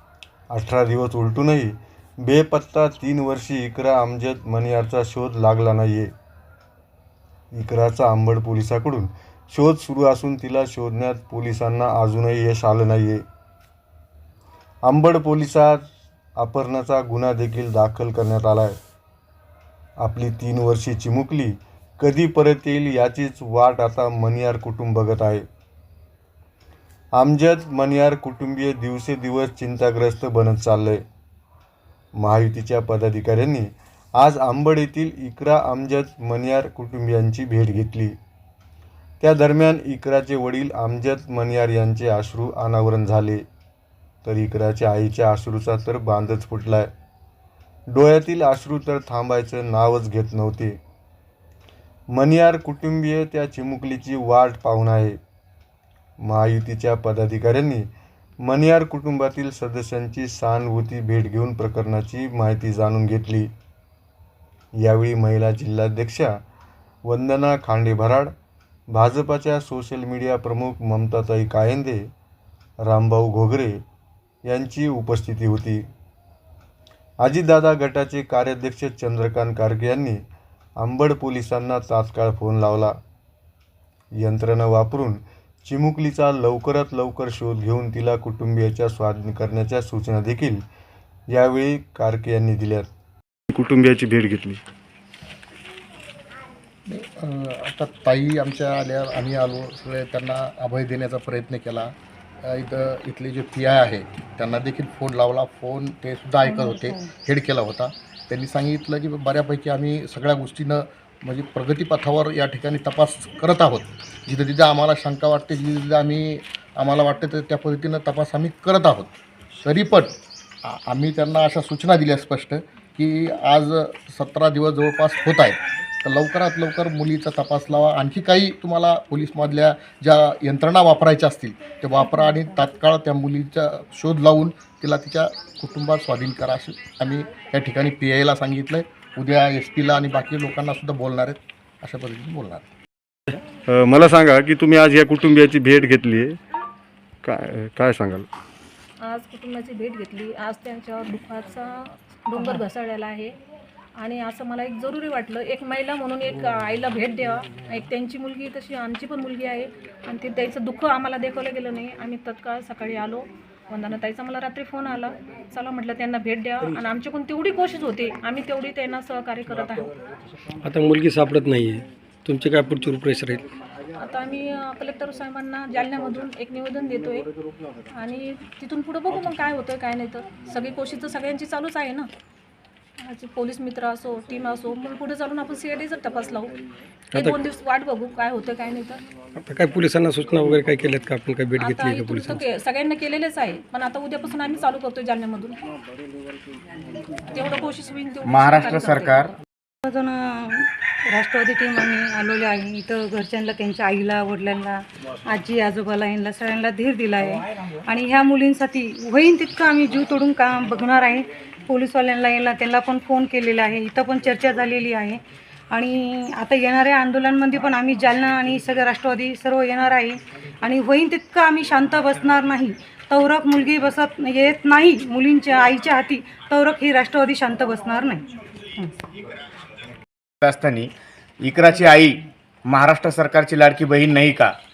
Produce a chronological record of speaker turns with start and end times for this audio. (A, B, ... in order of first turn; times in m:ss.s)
0:00.5-0:06.1 A
0:07.5-0:13.2 A
0:14.8-0:15.8 A
0:16.4-0:18.7 A
0:20.0-0:25.4 A
0:27.2-0:31.0 A
0:32.2-0:33.7 A
0:34.2-0:38.1 A
0:39.2-0:43.4 A
0:44.2-0:46.9 A
0:47.9-0:50.8 A
0:52.1-0:55.2 A
0:56.2-0:57.9 A
0:58.4-1:03.5 A
1:04.8-1:06.3 A
1:07.0-1:08.3 A
1:08.9-1:12.0 A
1:12.8-1:13.8 A
1:14.4-1:15.8 A
1:17.2-1:20.2 A
1:20.8-1:22.9 A
1:24.2-1:30.6 A
1:31.3-1:32.9 A
1:33.5-1:34.6 A
1:36.9-2:22.7 B
1:46.4-1:47.0 C
2:12.1-2:12.4 C
2:23.3-2:26.4 A
2:27.2-2:28.2 A
2:29.0-2:33.3 D
2:34.0-2:49.9 D
2:50.6-2:53.4 E
2:53.9-2:57.3 D
2:57.9-3:02.1 D
3:03.0-3:06.5 D
3:07.1-3:07.4 E
3:07.1-3:09.0 D
3:09.4-3:12.4 E
3:11.6-3:15.6 D
3:17.2-3:19.3 D
3:18.2-3:19.3 F
3:19.8-3:48.9 C
3:50.4-3:50.9 F
3:51.4-3:54.5 F